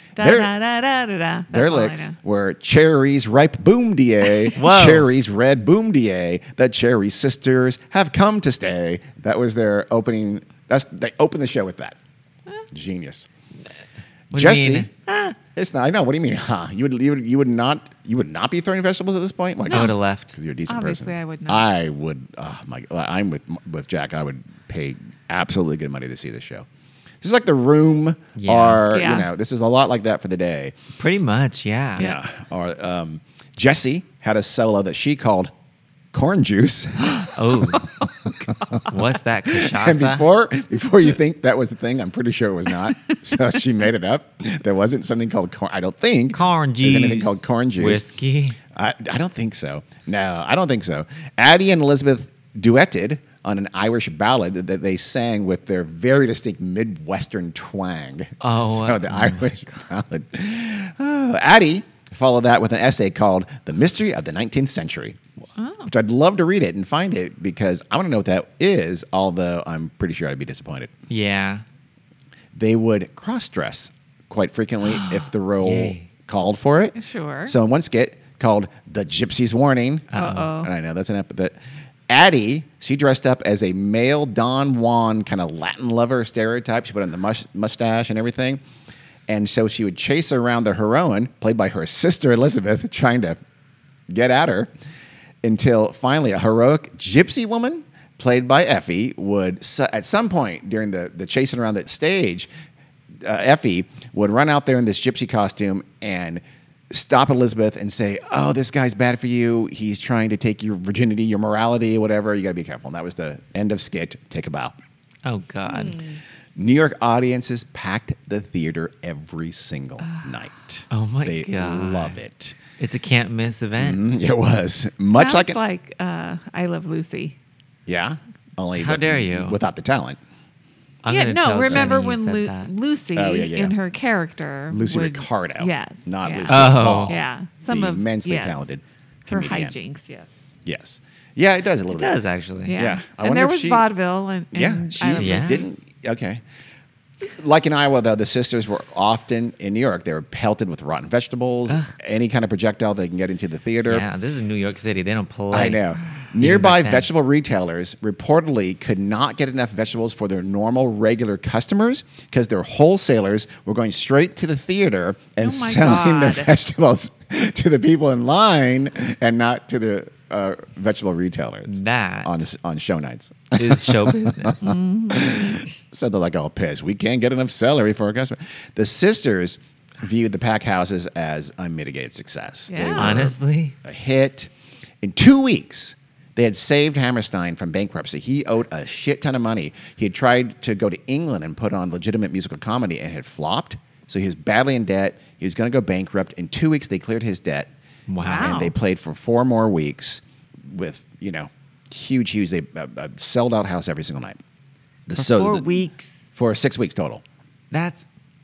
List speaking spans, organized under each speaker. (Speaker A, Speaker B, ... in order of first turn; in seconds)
Speaker A: 0.2-2.2, 19.7-19.9, 20.7-21.7, 28.9-29.3, 65.6-65.9, 77.0-77.5, 80.2-80.7, 115.7-116.2, 125.1-127.4, 131.1-138.7, 139.3-140.3, 142.7-145.6, 165.4-166.6, 174.6-175.6, 182.7-183.3, 198.2-198.7
Speaker B: 0.2-0.5, 1.5-12.0, 12.7-13.3, 14.3-14.9, 15.5-26.7, 27.2-30.8, 32.0-35.5, 36.1-38.8, 39.5-48.0, 48.7-65.2, 65.9-70.9, 72.5-81.5, 82.1-88.6, 89.3-93.4, 94.1-94.7, 95.4-102.5, 103.2-114.8, 116.6-122.6, 123.8-125.6, 127.9-130.2, 133.1-133.8, 134.7-139.8, 140.7-142.2, 142.7-143.9, 144.5-146.4, 147.2-154.1, 155.5-184.5, 185.0-197.7, 198.2-204.4, 205.1-205.7, 206.3-207.2
Speaker C: 4.5-5.1, 14.3-15.4, 19.7-20.3, 28.4-28.8, 31.0-32.1, 37.1-37.9, 38.9-40.2, 46.3-48.6, 58.4-59.5, 71.1-71.6, 74.9-76.1, 80.1-80.5, 115.2-116.0, 120.9-122.2, 122.8-124.0, 128.8-129.6, 131.0-132.7, 136.5-137.2, 141.9-142.8, 145.2-145.7, 153.9-157.1, 171.7-172.5, 173.6-174.7, 182.9-183.7, 198.1-198.6, 205.2-206.2, 207.7-208.0